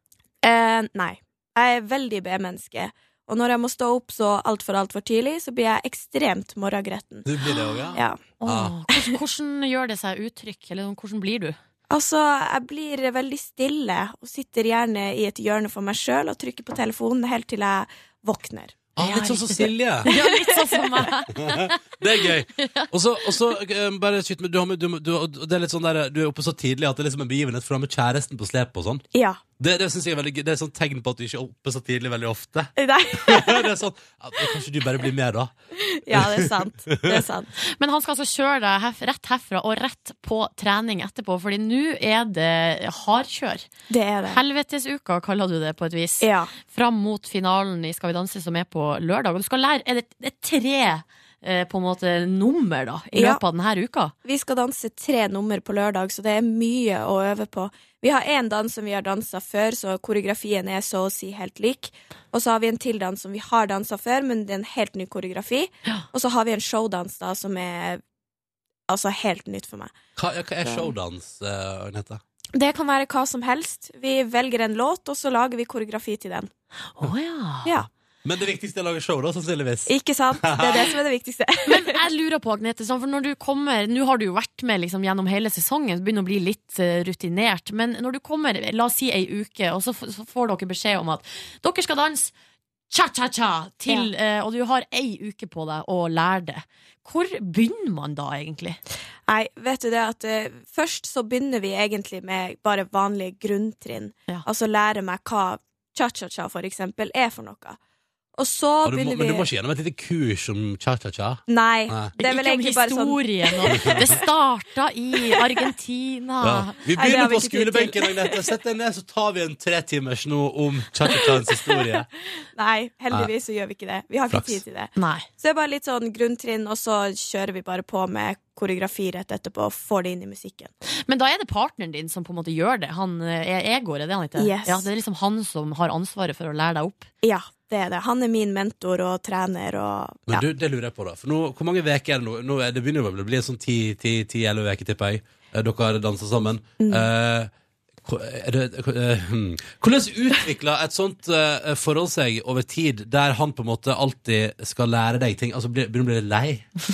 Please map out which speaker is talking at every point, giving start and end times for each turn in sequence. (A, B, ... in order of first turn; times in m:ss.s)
0:00.4-0:07.3 A
0:07.2-0:08.7 B
0:07.9-0:08.2 A
0:08.4-0:11.6 C
0:11.9-0:18.9 A
0:18.9-0:20.1 B
0:19.0-0:21.8 C
0:20.0-0:21.1 A
0:21.3-0:29.0 B
0:22.5-0:23.2 C
0:29.1-0:29.4 A
0:29.6-0:32.7 B
0:32.8-0:33.7 A
0:33.2-0:35.5 B
0:36.0-0:37.5 A
0:36.1-0:37.2 B
0:37.8-0:43.6 C
0:43.9-0:44.4 A
0:44.3-0:54.1 C
0:46.2-0:46.5 A
0:53.1-0:53.4 A
0:54.2-1:08.0 A
1:08.9-1:09.9 A
1:10.2-1:12.2 B
1:10.6-1:10.9 A
1:12.5-1:16.5 A
1:17.0-1:17.7 C
1:17.6-1:17.9 A
1:18.2-1:19.9 B
1:19.8-1:22.0 A
1:20.4-1:20.8 B
1:21.7-1:32.3 C
1:32.9-1:38.8 C
1:39.3-1:47.8 A
1:48.4-1:49.5 A
1:48.8-1:52.1 B
1:51.5-1:54.2 A
1:52.2-1:56.8 C
1:53.7-1:54.2 B
1:56.4-2:02.0 B
1:56.9-1:58.5 A
2:02.5-2:10.7 A
2:04.3-2:04.6 B
2:05.0-2:05.2 C
2:11.1-2:17.1 C
2:14.4-2:14.9 A
2:17.2-2:20.4 A
2:20.3-2:27.5 B
2:26.8-2:27.1 A
2:28.0-2:36.7 B